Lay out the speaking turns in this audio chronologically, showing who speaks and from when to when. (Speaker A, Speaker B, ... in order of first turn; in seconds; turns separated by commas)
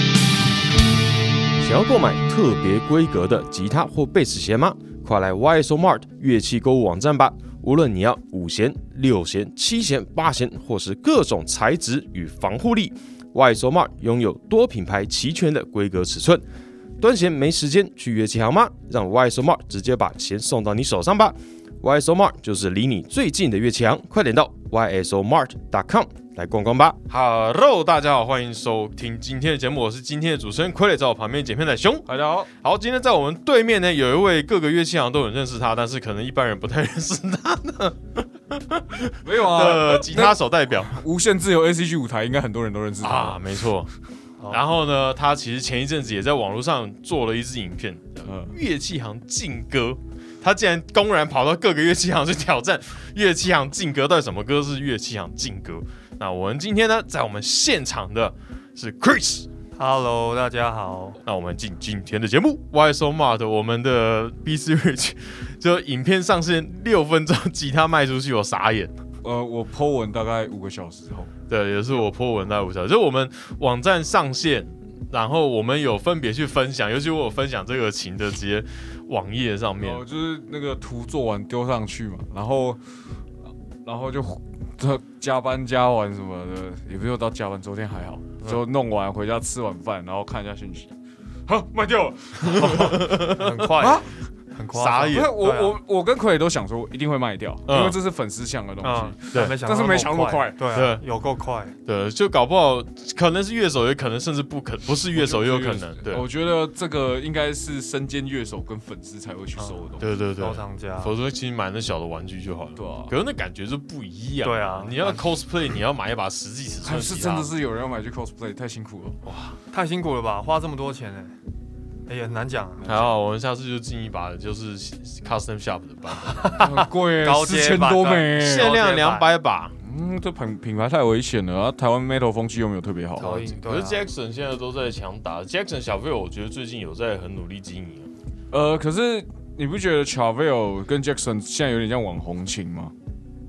Speaker A: 1.6-16.4, Speaker A: 17.0-41.0, Speaker B: 32.1-32.5, Speaker B: 39.2-43.4, Speaker A: 43.0-43.9, Speaker A: 44.5-59.5, Speaker B: 48.2-48.5, Speaker C: 59.8-61.2, Speaker A: 61.2-68.9, Speaker B: 69.2-71.3, Speaker A: 71.5-80.0, Speaker B: 79.8-82.8, Speaker B: 83.8-90.9, Speaker B: 91.5-93.0, Speaker C: 92.5-95.7, Speaker A: 92.5-93.5, Speaker B: 93.8-94.1, Speaker A: 94.7-95.3, Speaker B: 95.1-100.8, Speaker A: 97.7-98.0, Speaker C: 98.8-101.7, Speaker A: 100.7-101.0, Speaker A: 101.8-106.2, Speaker B: 105.1-110.1, Speaker C: 109.6-109.8, Speaker A: 110.0-117.5, Speaker C: 110.4-111.1, Speaker B: 112.8-113.1, Speaker C: 114.4-115.2, Speaker B: 116.8-119.2, Speaker A: 119.2-119.6, Speaker C: 119.7-121.3, Speaker C: 122.1-122.9, Speaker A: 122.8-126.7, Speaker C: 126.4-129.3, Speaker B: 126.4-128.7, Speaker A: 128.4-129.7, Speaker B: 129.8-133.4, Speaker C: 133.2-134.1, Speaker A: 133.2-138.1, Speaker B: 138.5-142.9